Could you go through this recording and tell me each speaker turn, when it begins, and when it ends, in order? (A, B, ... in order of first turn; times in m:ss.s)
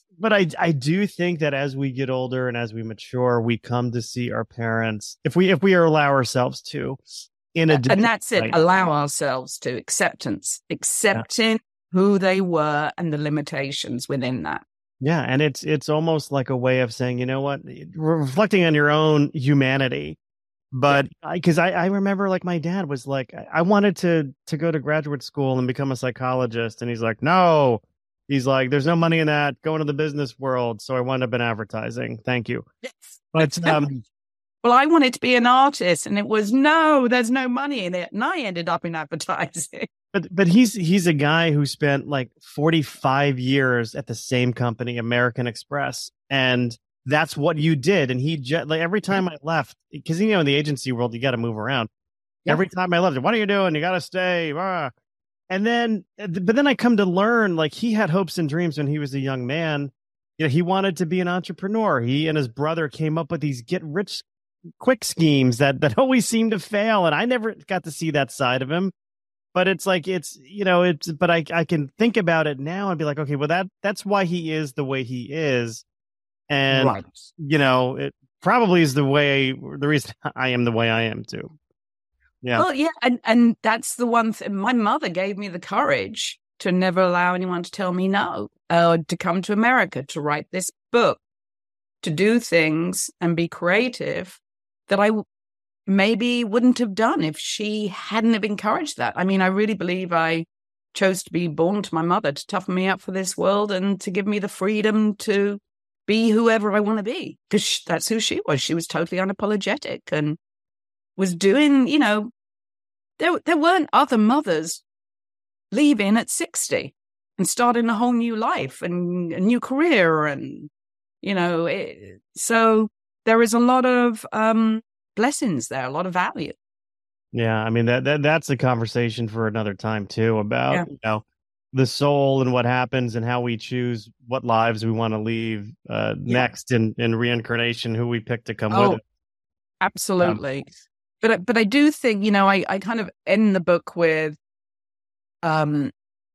0:00.2-0:07.0 A
0:07.5-0:08.6 A
0:07.7-0:14.6 B
0:15.0-0:20.2 A
0:20.7-0:32.6 A
0:32.8-0:33.8 B
0:33.3-0:34.0 A
0:34.6-0:39.9 B
0:40.1-0:51.9 A
0:52.5-0:54.9 A
0:55.5-1:04.2 A
1:04.8-1:08.9 A
1:09.5-1:15.8 A
1:16.5-1:21.5 A
1:16.7-1:17.2 B
1:22.5-1:31.2 B
1:32.0-1:35.2 B
1:35.9-1:50.4 B
1:51.2-1:52.3 B
1:53.2-1:54.8 B
1:55.7-2:00.7 B
2:01.2-2:06.6 B
2:07.3-2:19.0 A
2:18.7-2:19.0 B
2:19.8-2:20.7 B
2:21.2-2:24.4 B
2:25.4-2:25.9 B